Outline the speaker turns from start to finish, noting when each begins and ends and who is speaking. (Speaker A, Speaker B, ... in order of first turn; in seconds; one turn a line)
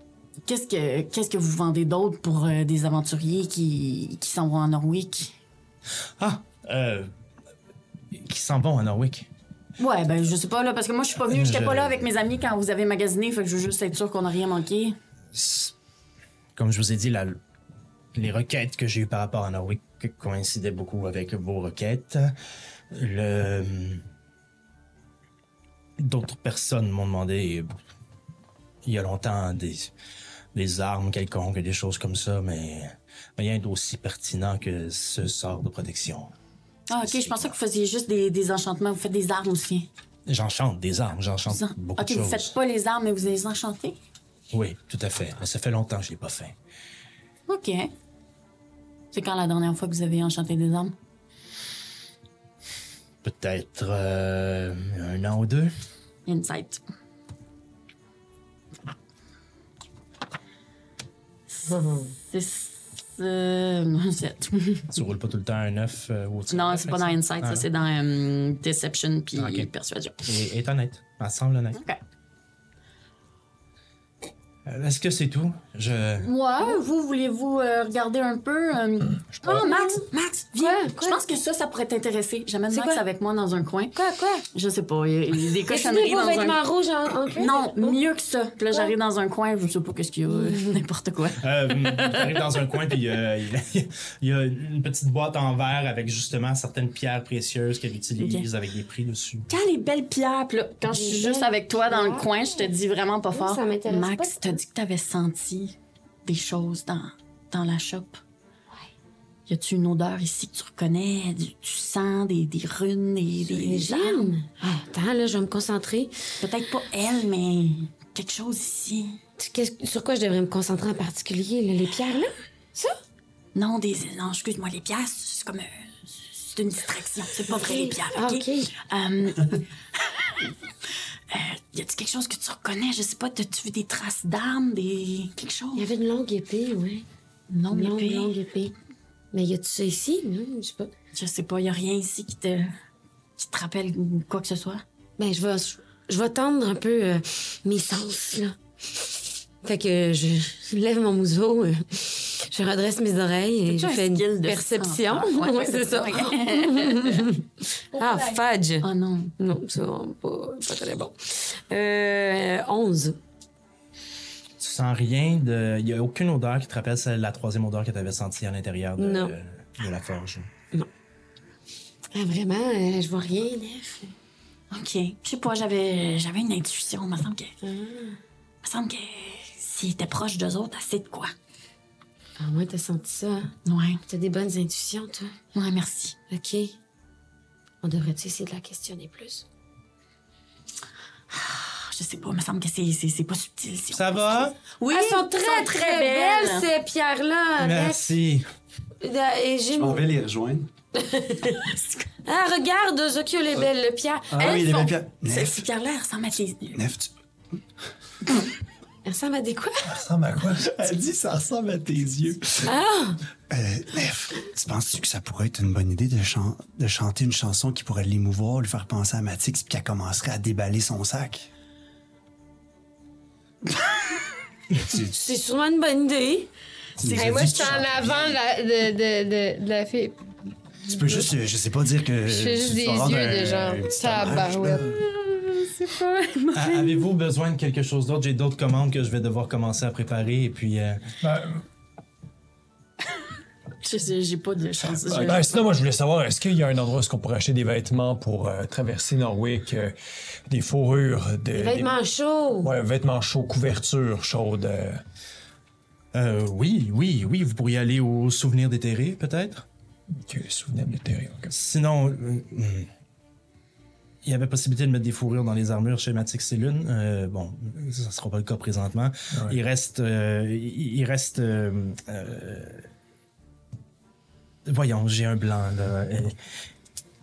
Speaker A: 0.5-5.3
Speaker B: 6.2-7.1
Speaker B: 8.1-9.3
Speaker A: 9.8-15.0
Speaker B: 11.2-12.0
Speaker B: 15.3-15.7
Speaker B: 16.6-17.4
Speaker B: 18.1-22.3
Speaker B: 22.9-24.0
Speaker B: 26.0-27.7
Speaker B: 28.8-29.9
Speaker B: 30.5-36.3
Speaker A: 36.9-39.9
Speaker B: 37.0-37.6
Speaker B: 40.3-42.5
Speaker A: 41.5-44.0
Speaker B: 44.5-46.6
Speaker A: 47.5-47.9
Speaker A: 49.1-51.0
Speaker B: 53.2-55.7
Speaker A: 56.3-56.8
Speaker A: 61.5-64.9
Speaker C: 61.7-62.1
Speaker B: 64.9-67.7
Speaker A: 66.5-70.3
Speaker B: 69.3-69.7
Speaker B: 70.2-71.8
Speaker A: 71.8-72.0
Speaker B: 74.7-76.3
Speaker A: 76.2-84.0
Speaker C: 79.4-81.2
Speaker C: 82.7-83.0
Speaker C: 83.9-84.5
Speaker A: 84.5-86.6
Speaker C: 85.7-88.0
Speaker A: 87.3-91.4
Speaker C: 90.3-90.7
Speaker B: 91.3-99.5
Speaker A: 92.0-92.4
Speaker A: 98.2-98.5
Speaker A: 99.5-108.2
Speaker C: 100.9-102.7
Speaker C: 103.3-104.6
Speaker A: 109.5-114.3
Speaker C: 113.4-116.2
Speaker A: 116.4-119.2
Speaker C: 119.4-123.0
Speaker A: 123.5-130.6
Speaker C: 127.5-128.7
Speaker A: 131.3-135.9
Speaker C: 135.8-137.1
Speaker A: 137.5-138.3
Speaker C: 137.7-138.8
Speaker C: 139.3-140.9
Speaker A: 141.1-142.7
Speaker A: 143.4-144.8
Speaker C: 145.2-148.6
Speaker C: 149.6-157.4
Speaker A: 153.7-157.3
Speaker D: 157.9-158.4
Speaker C: 158.0-158.9
Speaker A: 158.8-159.3
Speaker C: 159.4-163.2
Speaker B: 164.6-170.5
Speaker C: 169.0-169.3
Speaker C: 172.1-174.1
Speaker A: 174.7-177.6
Speaker C: 177.6-178.2
Speaker A: 178.6-181.3
Speaker C: 182.4-183.5
Speaker A: 183.7-184.0
Speaker C: 184.1-185.3
Speaker A: 185.5-186.2
Speaker C: 186.3-186.8
Speaker C: 187.8-189.4
Speaker A: 191.3-196.7
Speaker B: 193.9-194.6
Speaker C: 194.9-198.0
Speaker B: 197.6-198.5
Speaker C: 199.0-200.1
Speaker E: 199.7-200.7
Speaker C: 201.0-201.7
Speaker A: 201.6-202.1
Speaker C: 202.2-204.9
Speaker E: 204.3-205.6
Speaker A: 204.4-206.8
Speaker E: 206.7-207.1
Speaker C: 209.1-210.0
Speaker E: 209.9-212.7
Speaker C: 212.6-213.2
Speaker E: 213.5-221.5
Speaker E: 224.8-225.1
Speaker C: 225.0-226.5
Speaker E: 227.0-228.4
Speaker D: 227.2-230.2
Speaker D: 230.8-231.3
Speaker E: 230.9-235.0
Speaker D: 232.2-234.9
Speaker A: 234.9-237.1
Speaker B: 236.5-241.1
Speaker F: 241.2-241.6
Speaker A: 243.8-245.6
Speaker F: 245.1-250.0
Speaker F: 250.5-252.0
Speaker C: 251.5-252.7
Speaker F: 252.6-255.0
Speaker B: 256.1-259.6
Speaker F: 260.2-261.5
Speaker B: 261.5-262.9
Speaker B: 264.2-272.9
Speaker B: 274.7-276.4